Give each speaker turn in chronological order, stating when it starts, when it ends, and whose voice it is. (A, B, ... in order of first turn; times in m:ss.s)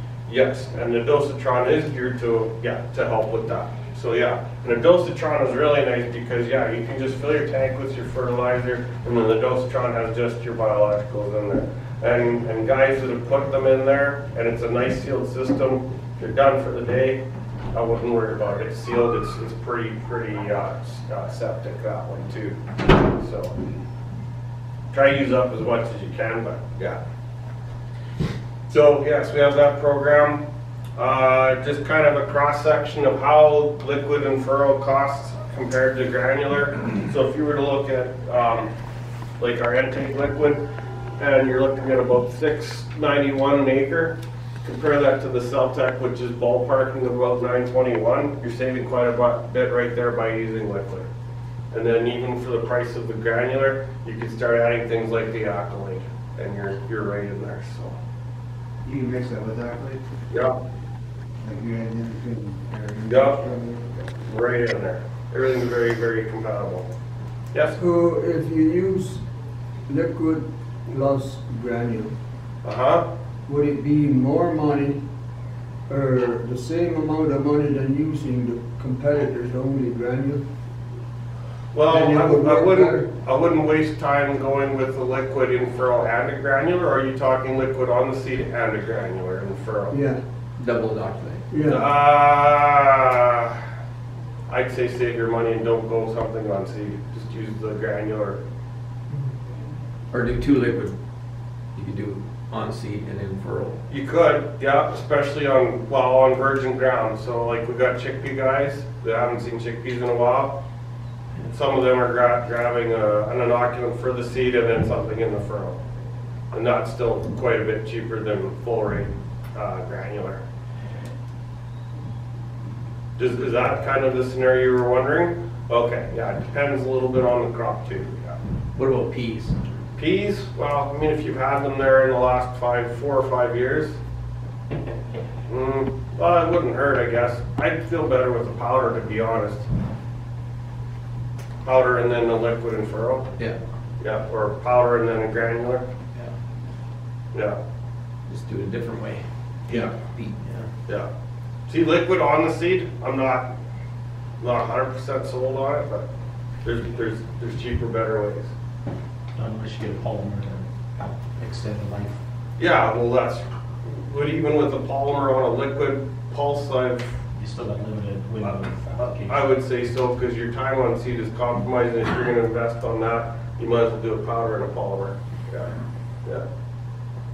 0:00.3-0:23.7 A
0:24.9-0:27.0 A
0:28.7-0:30.4 A
0:31.0-0:38.7 A
0:39.4-0:40.6 A
0:41.2-0:51.1 A
0:51.7-0:58.0 A
0:58.8-1:00.0 B
1:00.3-1:00.6 A
1:01.4-1:03.9 B
1:03.0-1:03.5 A
1:04.2-1:06.9 A
1:07.8-1:09.2 C
1:09.9-1:12.1 C
1:12.6-1:13.1 A
1:13.5-1:15.0 C
1:15.9-1:20.4 C
1:21.7-1:30.0 A
1:21.9-1:23.1 C
1:29.9-1:30.2 C
1:30.6-1:31.4 D
1:31.5-1:31.9 C
1:31.6-1:33.6 A
1:34.5-1:38.4 A
1:40.1-1:41.0 D
1:41.8-1:43.8 D
1:43.9-1:50.6 A
1:51.5-1:55.8 A
1:56.5-2:00.4 A
2:03.2-2:08.4 A
2:08.8-2:09.6 D
2:10.0-2:14.0 A
2:15.5-2:19.7 A
2:21.6-2:23.3 A
2:24.0-2:25.9 A
2:28.3-2:30.7 D
2:31.7-2:33.5 A
2:34.4-2:36.1 A
2:36.6-2:38.5 A
2:39.4-2:42.2 E
2:42.6-2:47.2 A
2:47.4-2:49.4 E
2:48.4-2:55.7 A